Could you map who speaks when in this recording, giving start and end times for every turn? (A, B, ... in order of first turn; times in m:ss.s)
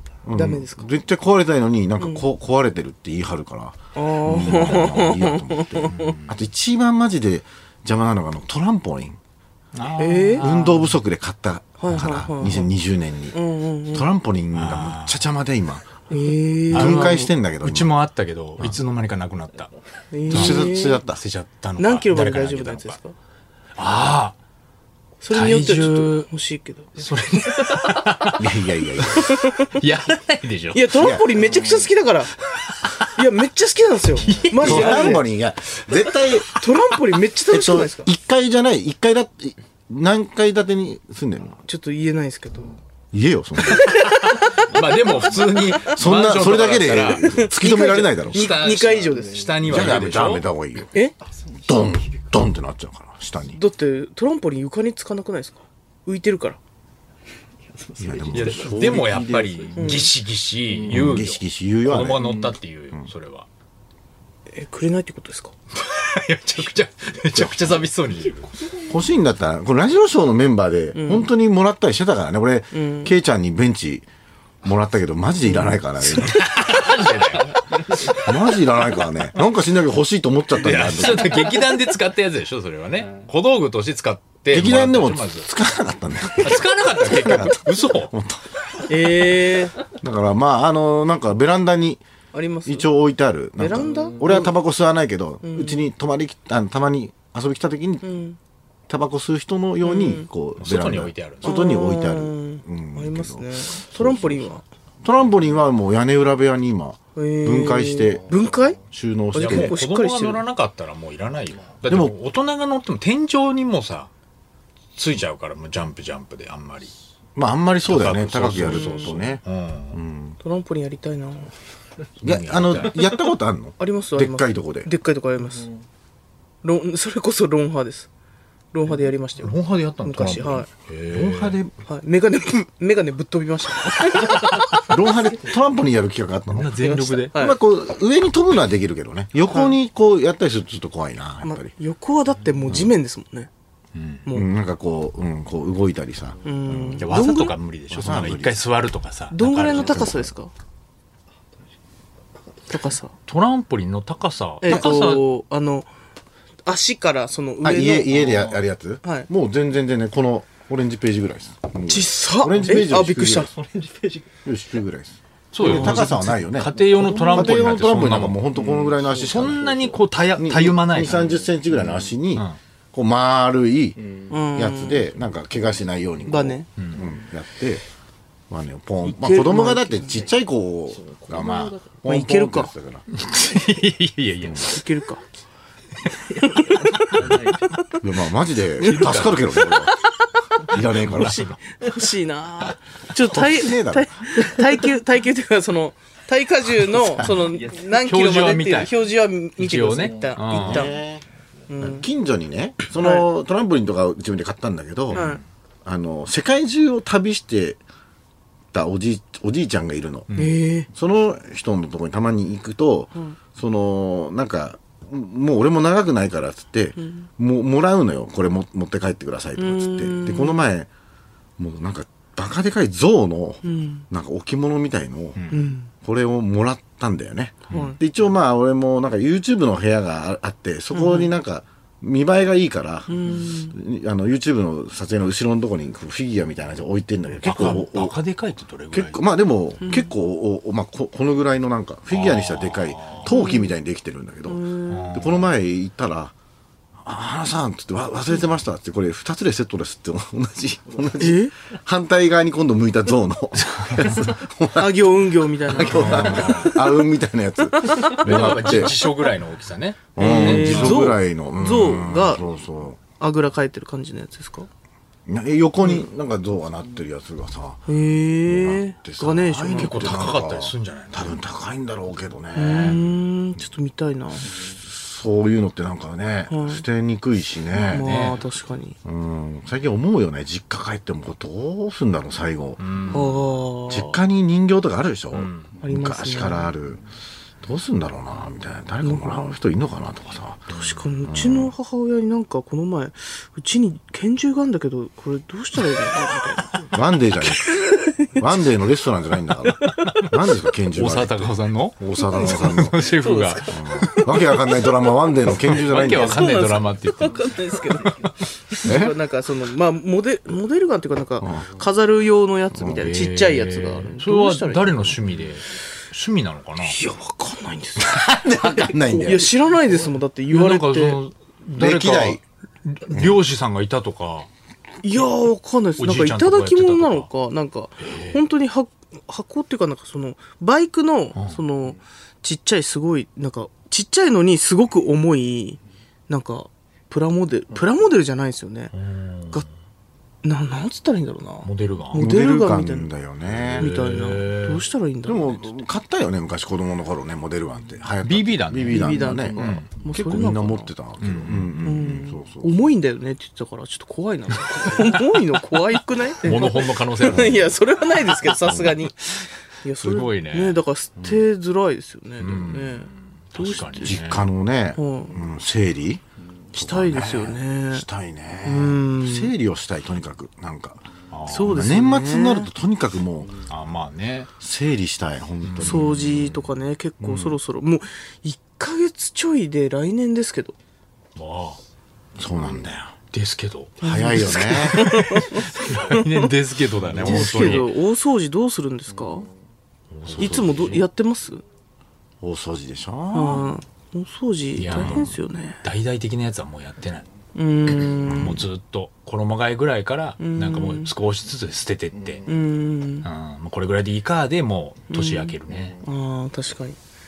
0:00.2-0:09.2 A
0:00.3-0:00.9 B
0:04.0-0:06.2 B
0:05.9-0:06.4 C
0:09.8-0:11.0 C
0:10.0-0:10.5 B
0:10.4-0:13.4 A
0:11.8-0:12.7 B
0:13.3-0:14.1 B
0:13.9-0:15.9 A
0:14.5-0:15.2 C
0:16.1-0:17.3 B
0:16.7-0:17.9 A
0:16.7-0:19.7 C
0:20.1-0:21.0 B
0:20.3-0:21.2 A
0:20.3-0:23.0 C
0:21.8-0:23.1 B
0:23.8-0:24.4 C
0:25.2-0:27.9 B
0:25.3-0:26.3 C
0:27.0-0:31.0 C
0:28.4-0:29.3 A
0:29.1-0:29.8 B
0:30.7-0:32.3 B
0:31.0-0:31.3 A
0:33.0-0:35.2 B
0:34.3-0:35.1 C
0:34.6-0:36.6 A
0:36.5-0:38.1 B
0:37.5-0:41.6 A
0:41.6-0:42.8 B
0:43.1-0:44.0 A
0:43.7-0:45.5 B
0:44.0-0:47.3 C
0:45.9-0:48.5 A
0:47.2-0:49.5 B
0:48.3-0:50.5 C
0:49.6-0:50.9 A
0:51.6-0:53.6 A
0:53.6-0:56.6 B
0:58.0-0:59.9 A
0:58.3-1:03.5 C
0:59.8-1:00.1 B
1:00.9-1:02.3 A
1:04.5-1:05.5 B
1:05.7-1:08.5 C
1:08.9-1:14.1 A
1:11.0-1:11.3 B
1:12.7-1:13.1 B
1:14.6-1:16.9 A
1:15.5-1:15.8 B
1:16.0-1:17.9 C
1:18.0-1:21.5 A
1:20.6-1:25.5 C
1:24.5-1:28.4 A
1:26.4-1:28.1 C
1:28.9-1:29.8 B
1:29.9-1:32.0 A
1:32.3-1:32.9 B
1:32.7-1:38.0 A
1:33.6-1:34.6 B
1:35.4-1:35.9 B
1:38.0-1:38.4 B
1:38.9-1:44.5 A
1:39.8-1:40.3 B
1:40.6-1:41.6 C
1:41.4-1:44.6 B
1:45.0-1:48.3 A
1:47.2-1:48.8 B
1:48.9-1:49.8 A
1:49.3-1:50.4 B
1:49.4-1:54.1 C
1:51.9-1:52.2 A
1:55.0-1:56.9 C
1:57.4-1:59.4 A
1:57.9-2:00.0 C
1:58.7-1:59.1 B
1:59.9-2:00.4 A
2:00.4-2:01.5 B
2:02.2-2:04.9 A
2:02.2-2:03.1 C
2:03.8-2:05.7 B
2:06.6-2:08.1 B
2:08.7-2:10.7 B
2:09.4-2:11.6 C
2:11.1-2:11.7 A
2:11.9-2:14.9 B
2:14.8-2:21.7 A
2:16.5-2:17.3 C
2:16.8-2:17.6 B
2:19.5-2:19.8 B
2:21.4-2:23.5 B
2:24.0-2:24.2 C
2:24.3-2:27.0 A
2:26.4-2:27.6 B
2:27.0-2:30.2 C
2:27.9-2:28.6 A
2:29.3-2:30.5 B
2:29.7-2:30.3 A
2:32.7-2:33.1 B
2:33.3-2:35.2 C
2:34.6-2:35.9 B
2:34.7-2:35.0 A
2:36.7-2:38.2 B
2:37.6-2:43.6 A
2:39.0-2:39.3 B
2:41.9-2:43.5 B
2:44.4-2:57.8 A
2:45.5-2:48.4 C
2:45.6-2:46.3 B
2:47.0-2:47.4 B
2:49.2-2:51.3 C
2:54.3-2:55.0 B
2:56.3-2:56.7 B
2:58.5-3:03.0 A
2:59.0-3:00.2 B
3:02.0-3:02.7 B
3:03.1-3:04.8 C
3:04.6-3:05.2 B
3:06.4-3:08.0 B
3:08.0-3:09.9 A
3:08.8-3:09.9 B
3:08.8-3:09.8 C
3:10.7-3:11.5 A
3:10.7-3:21.0 B
3:11.0-3:11.6 C
3:13.2-3:14.2 A
3:18.0-3:19.0 C
3:19.6-3:20.9 C
3:20.5-3:21.2 A
3:21.7-3:22.0 B
3:21.8-3:25.3 A
3:23.0-3:23.3 B
3:25.1-3:25.4 C
3:25.1-3:25.4 B
3:25.8-3:27.8 A
3:28.7-3:30.3 A
3:30.3-3:30.6 C
3:30.4-3:30.9 B
3:30.9-3:40.9 A
3:37.0-3:37.3 B
3:39.6-3:40.6 B
3:41.6-3:58.2 A
3:43.6-3:44.1 B
3:45.5-3:45.9 B
3:47.7-3:48.0 B
3:50.9-3:51.3 B
3:53.1-3:53.8 B
3:57.4-3:59.2 C
3:58.9-4:06.3 A
3:59.8-4:00.1 B
4:02.1-4:03.3 C
4:03.3-4:03.7 B
4:04.5-4:05.1 B
4:04.9-4:05.5 C
4:07.0-4:15.0 A
4:11.2-4:11.5 B
4:14.0-4:17.0 B
4:15.7-4:18.9 A
4:15.8-4:16.7 C
4:17.8-4:19.0 B
4:18.2-4:21.1 C
4:20.2-4:23.0 A
4:20.2-4:22.4 B
4:23.2-4:24.7 B
4:25.3-4:27.8 A
4:27.9-4:30.3 B
4:28.4-4:33.0 A
4:29.7-4:31.4 C
4:32.5-4:34.6 B
4:34.7-4:38.3 A
4:36.5-4:36.8 B
4:37.8-4:39.0 B
4:38.0-4:38.4 C
4:39.0-4:43.2 A
4:42.8-4:43.5 C
4:43.1-4:44.2 B
4:43.9-4:47.0 A
4:45.3-4:45.7 C
4:45.8-4:46.7 B
4:47.6-4:51.7 A
4:49.0-4:49.5 B
4:50.7-4:56.8 B
4:56.9-4:57.7 A
4:57.5-4:58.3 B
4:58.4-5:03.0 A
4:59.7-5:00.1 B
5:00.9-5:03.6 C
5:02.3-5:04.9 B
5:03.7-5:06.4 A
5:05.7-5:15.2 B
5:05.7-5:08.3 C
5:08.8-5:09.2 A
5:12.7-5:13.0 A
5:13.0-5:17.0 C
5:16.8-5:21.2 B
5:18.0-5:19.6 A
5:20.5-5:24.5 C
5:21.8-5:22.4 A
5:23.1-5:23.4 A
5:25.0-5:38.9 B
5:26.0-5:27.3 C
5:28.0-5:28.4 C
5:38.9-5:39.7 C
5:40.4-5:43.1 B
5:41.6-5:42.3 C
5:42.1-5:43.9 A
5:43.6-5:44.8 C
5:43.8-5:45.8 B
5:45.3-5:52.7 A
5:48.2-5:49.9 C
5:48.9-5:50.9 B
5:51.2-5:52.0 C
5:51.8-5:59.3 B
5:56.4-5:57.8 C
5:58.4-5:58.7 C
5:59.8-6:04.2 B
6:00.0-6:00.8 C
6:02.4-6:04.5 C
6:04.0-6:06.2 A
6:05.0-6:05.3 B
6:06.7-6:08.1 B
6:06.7-6:11.0 A
6:08.6-6:09.5 B
6:11.3-6:11.9 C
6:11.5-6:12.7 B
6:11.6-6:13.6 A
6:13.7-6:14.5 C
6:14.6-6:16.6 A
6:15.6-6:16.4 C
6:15.8-6:20.8 B
6:17.2-6:17.6 A
6:21.4-6:21.8 C
6:22.4-6:23.1 A
6:23.3-6:27.9 C
6:24.0-6:25.2 A
6:24.0-6:26.5 B
6:27.1-6:29.5 B
6:27.2-6:27.5 A
6:30.1-6:31.0 C
6:30.3-6:30.8 A
6:30.4-6:31.6 B
6:32.4-6:33.7 A
6:33.3-6:35.8 B
6:34.8-6:37.3 C
6:34.9-6:35.3 A
6:37.6-6:38.6 B
6:38.3-6:42.5 C
6:40.4-6:41.1 B
6:42.5-6:43.3 B
6:43.2-6:46.0 C
6:45.1-6:47.0 B